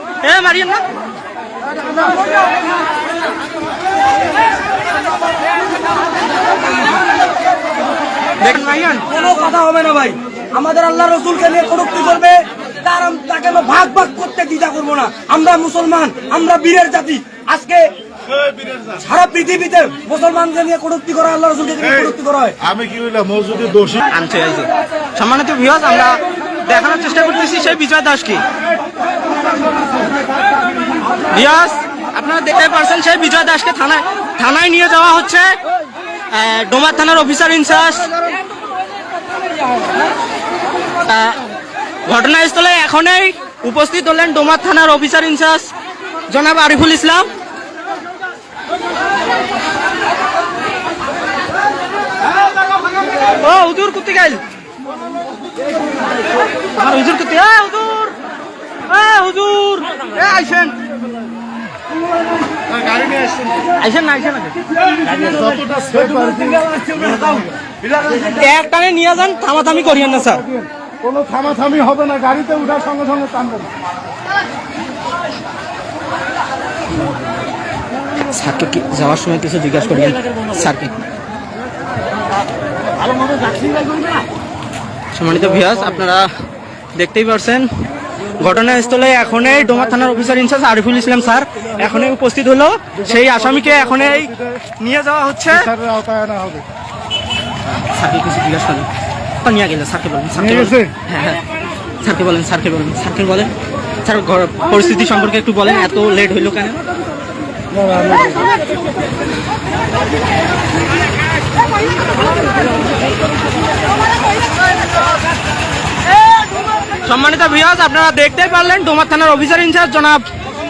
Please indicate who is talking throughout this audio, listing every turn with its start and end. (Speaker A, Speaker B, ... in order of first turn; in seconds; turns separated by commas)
Speaker A: 0.2-0.8, Speaker A: 8.4-9.1, Speaker B: 9.1-17.9, Speaker B: 18.8-22.6, Speaker C: 22.7-24.0, Speaker A: 24.1-28.4, Speaker A: 31.2-35.5, Speaker A: 36.3-38.1, Speaker A: 41.0-41.4, Speaker A: 42.1-45.7, Speaker A: 46.3-47.3, Speaker A: 53.4-54.4, Speaker A: 56.7-58.1, Speaker A: 58.9-60.8, Speaker C: 62.9-63.4, Speaker A: 63.8-64.5, Speaker B: 65.0-68.3, Speaker C: 65.2-66.6, Speaker A: 68.2-70.5, Speaker C: 70.6-73.7, Speaker A: 78.3-80.9, Speaker A: 85.1-86.3, Speaker A: 87.0-87.7, Speaker A: 88.4-95.7, Speaker C: 93.2-94.4, Speaker C: 95.5-96.6, Speaker A: 97.9-98.9, Speaker A: 99.4-101.4, Speaker C: 100.4-100.9, Speaker A: 102.0-103.5, Speaker A: 104.0-106.8, Speaker C: 107.7-108.5, Speaker A: 117.0-120.2